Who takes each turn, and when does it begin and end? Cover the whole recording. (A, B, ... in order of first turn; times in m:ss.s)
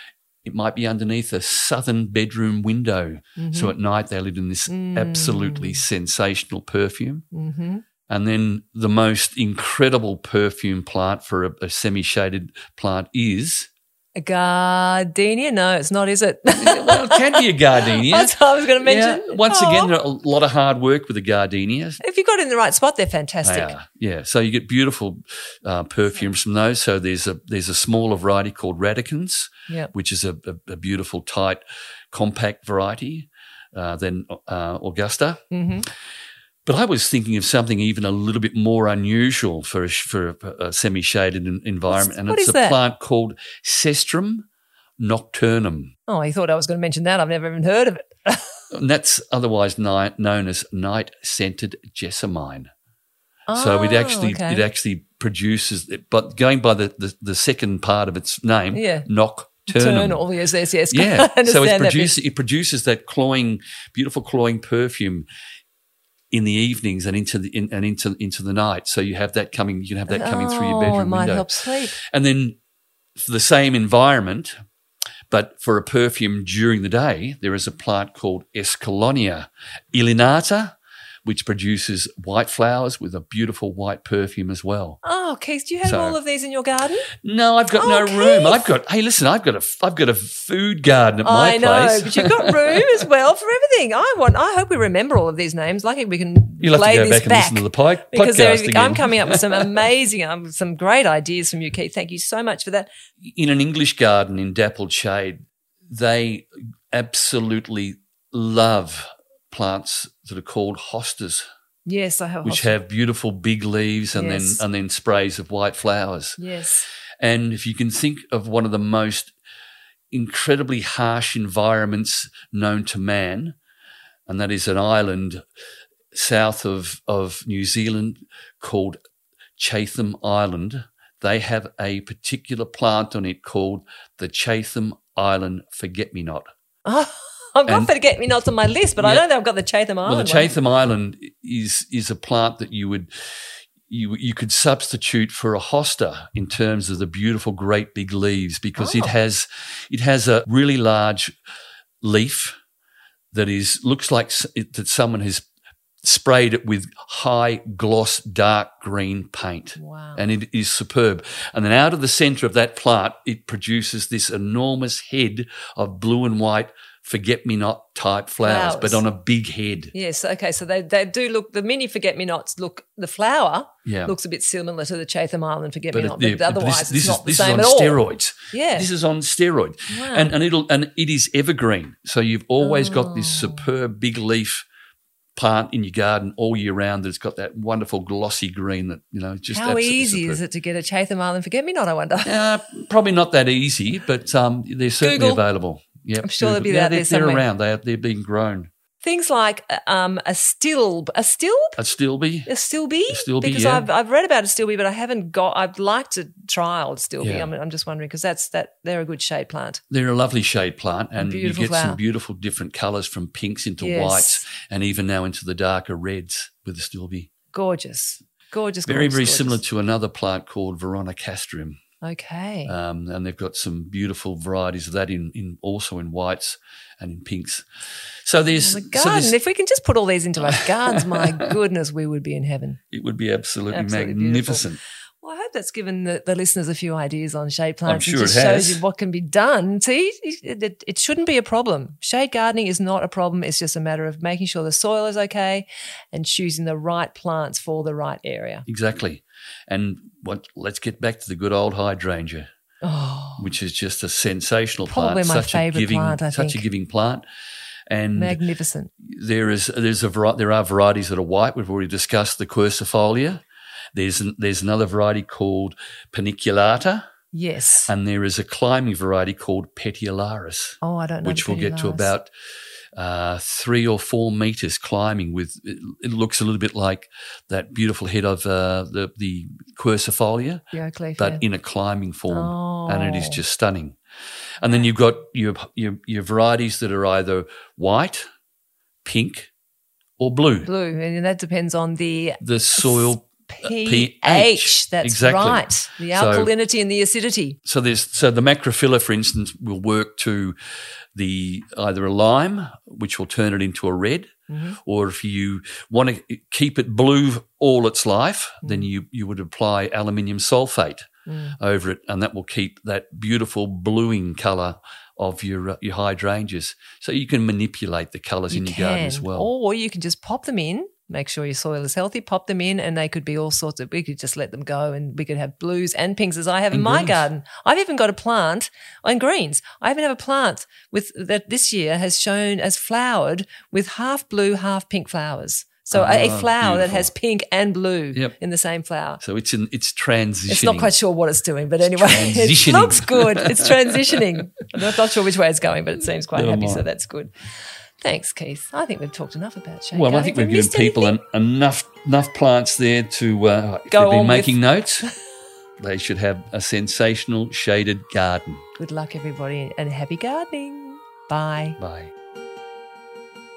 0:00.4-0:07.2 A
0:03.4-0:03.7 B
0:04.7-0:05.8 B
0:07.3-0:07.8 B
0:08.1-0:13.7 A
0:14.2-0:19.9 B
0:16.5-0:22.0 A
0:22.0-0:23.8 B
0:23.4-0:31.6 A
0:32.1-0:35.4 A
0:35.5-0:35.9 B
0:36.7-0:44.5 A
0:41.9-0:42.8 B
0:45.0-0:45.9 A
0:46.1-0:48.5 B
0:48.7-0:52.7 A
0:53.5-0:54.6 B
0:53.6-1:00.2 A
0:58.7-0:59.1 B
0:59.7-1:02.2 B
1:00.9-1:05.3 A
1:06.3-1:11.5 A
1:10.1-1:12.0 B
1:12.0-1:12.6 A
1:13.2-1:14.5 A
1:15.3-1:25.0 A
1:25.0-1:27.1 B
1:25.8-1:26.2 A
1:27.2-1:33.0 A
1:27.8-1:28.7 B
1:31.2-1:42.9 B
1:36.6-1:39.8 A
1:43.2-1:51.5 A
1:51.9-1:52.8 B
1:52.4-1:56.4 A
1:54.2-1:54.6 B
1:56.4-1:56.9 B
1:57.2-1:59.3 A
2:00.1-2:03.6 A
2:04.3-2:05.4 A
2:06.1-2:09.0 A
2:09.6-2:16.5 A
2:16.9-2:20.5 B
2:19.0-2:19.2 A
2:20.1-2:23.1 A
2:23.9-2:31.3 A
2:28.8-2:29.1 B
2:32.0-2:32.6 A
2:33.3-2:35.4 A
2:36.0-2:49.9 A
2:39.8-2:40.2 B
2:48.4-2:49.0 B
2:49.9-2:58.0 B
2:53.9-2:54.1 A
2:55.9-3:04.7 A
2:58.5-2:58.9 B
2:59.9-3:00.3 B
3:02.6-3:03.7 B
3:05.4-3:10.4 A
3:09.5-3:12.4 B
3:12.2-3:18.7 A
3:15.0-3:15.4 B
3:16.2-3:17.4 B
3:19.0-3:21.8 B
3:21.8-3:22.5 A
3:22.5-3:29.8 B
3:23.1-3:23.9 A
3:27.2-3:27.5 A
3:29.9-3:37.3 A
3:31.2-3:32.0 B
3:33.8-3:34.4 B
3:37.5-3:39.6 B
3:38.9-3:41.8 A
3:42.0-3:42.7 B
3:42.7-3:47.6 A
3:48.2-3:49.4 A
3:48.6-3:52.8 B
3:50.5-3:51.5 A
3:52.9-3:54.8 A
3:53.7-3:54.6 B
3:55.2-4:08.6 B
3:57.9-3:58.8 A
4:08.7-4:12.5 A
4:12.8-4:13.5 B
4:13.4-4:17.2 A
4:14.9-4:16.7 B
4:17.9-4:18.4 A
4:18.2-4:18.9 B
4:19.0-4:23.4 A
4:23.9-4:27.1 A
4:27.3-4:27.9 B
4:27.9-4:32.3 A
4:30.8-4:32.1 B
4:33.0-4:40.6 A
4:40.7-4:41.4 B
4:41.2-4:44.0 A
4:42.3-4:43.4 B
4:44.6-4:48.3 A
4:49.0-4:49.5 A
4:50.2-4:50.7 A
4:50.6-4:57.6 B
4:52.4-4:56.5 A
4:57.6-5:00.6 A
5:01.2-5:04.3 A
5:04.5-5:04.8 B
5:04.8-5:11.1 A
5:08.6-5:08.9 B
5:11.3-5:11.6 B
5:11.6-5:19.5 A
5:18.5-5:39.2 B
5:26.7-5:27.2 A
5:35.9-5:37.1 A
5:39.2-5:40.9 A
5:40.5-5:47.3 B
5:41.9-5:44.3 A
5:46.3-5:46.8 A
5:48.0-5:51.2 B
5:49.9-5:55.1 A
5:53.9-5:55.1 B
5:55.8-5:58.6 A
5:58.8-6:01.8 B
6:01.8-6:02.1 A